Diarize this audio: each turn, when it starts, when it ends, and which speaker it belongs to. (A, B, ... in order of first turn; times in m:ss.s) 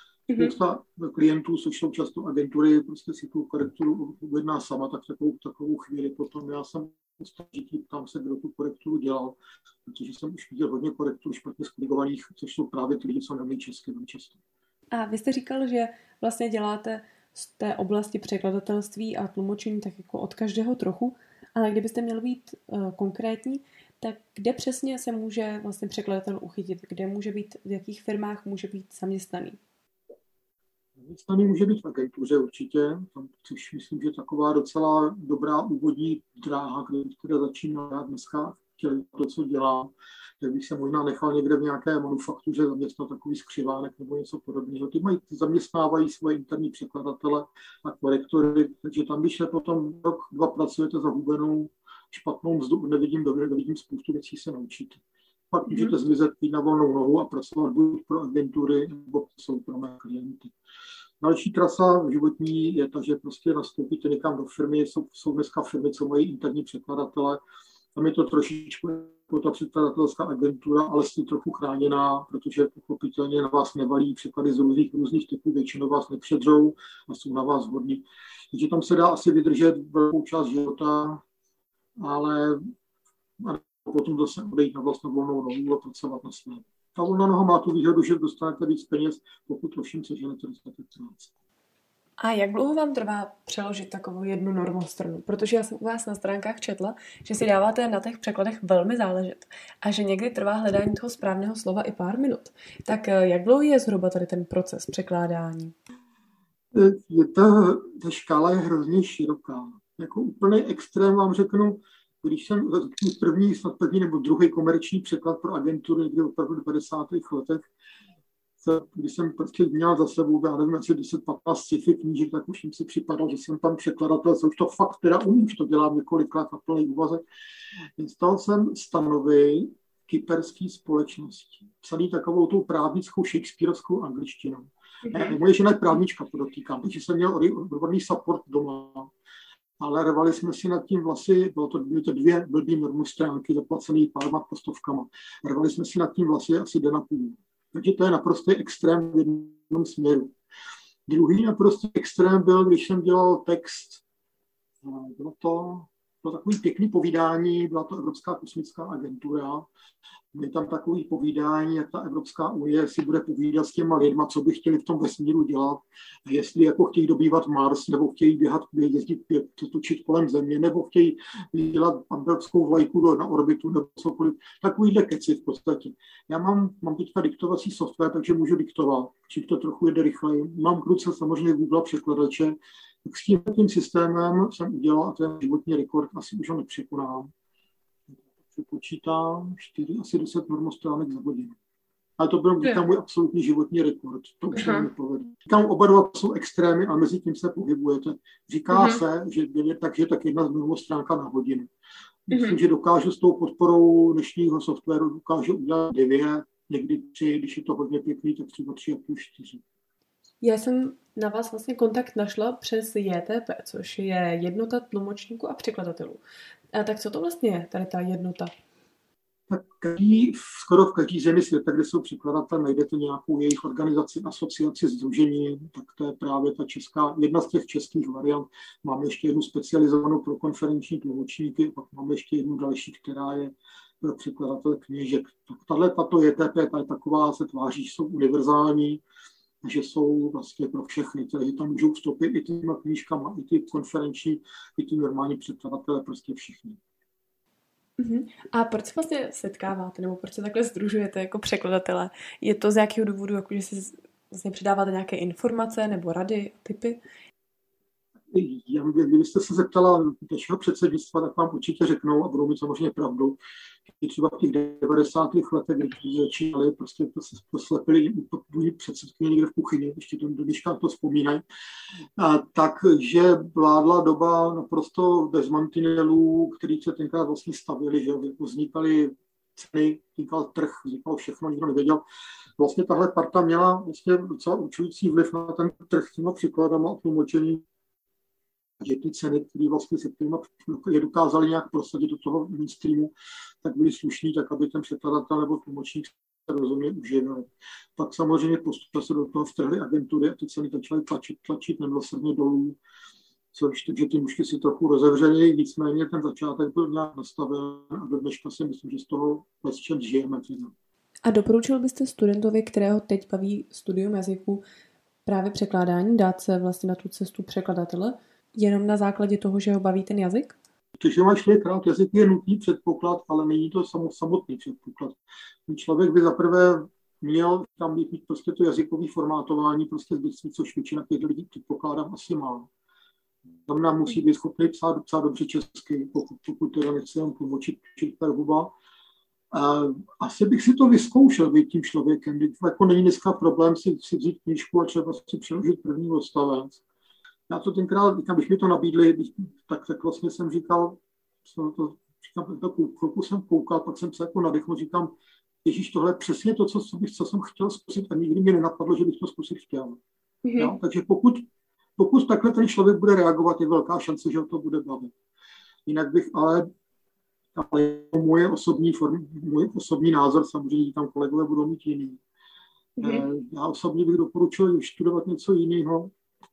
0:00.3-0:00.6 A
0:00.4-0:14.4 B
0:14.9-0:29.6 A
0:31.0-1:00.5 B
0:55.7-0:55.9 A
1:01.2-1:07.4 B
1:08.0-1:21.2 B
1:22.0-1:22.6 B
1:23.4-1:31.3 B
1:32.2-1:45.7 A
1:46.7-1:57.7 B
1:58.6-2:07.2 B
2:08.0-2:19.1 B
2:15.1-2:15.4 A
2:19.8-2:30.3 B
2:31.1-2:34.0 B
2:34.8-2:39.7 B
2:40.3-3:07.3 B
3:08.2-3:11.6 B
3:12.2-3:21.7 B
3:14.5-3:14.9 A
3:18.7-3:19.0 A
3:22.3-3:29.6 B
3:22.3-3:22.6 A
3:30.4-3:36.2 A
3:36.7-3:38.5 A
3:39.5-3:59.0 B
3:59.6-4:06.8 B
4:08.0-4:17.0 A
4:18.3-4:23.4 B
4:23.9-4:31.4 B
4:32.2-4:42.0 B
4:42.6-4:47.6 B
4:48.8-5:02.8 B
5:03.5-5:10.7 B
5:11.2-5:14.6 A
5:15.3-5:20.6 A
5:21.0-5:32.7 B
5:33.7-5:38.7 B
5:39.5-5:46.8 B
5:47.5-6:00.0 B
6:00.4-6:00.7 A
6:00.6-6:01.4 B
6:02.0-6:05.1 B
6:05.9-6:06.7 B
6:07.6-6:12.2 B
6:13.0-6:13.2 A
6:13.0-6:16.1 B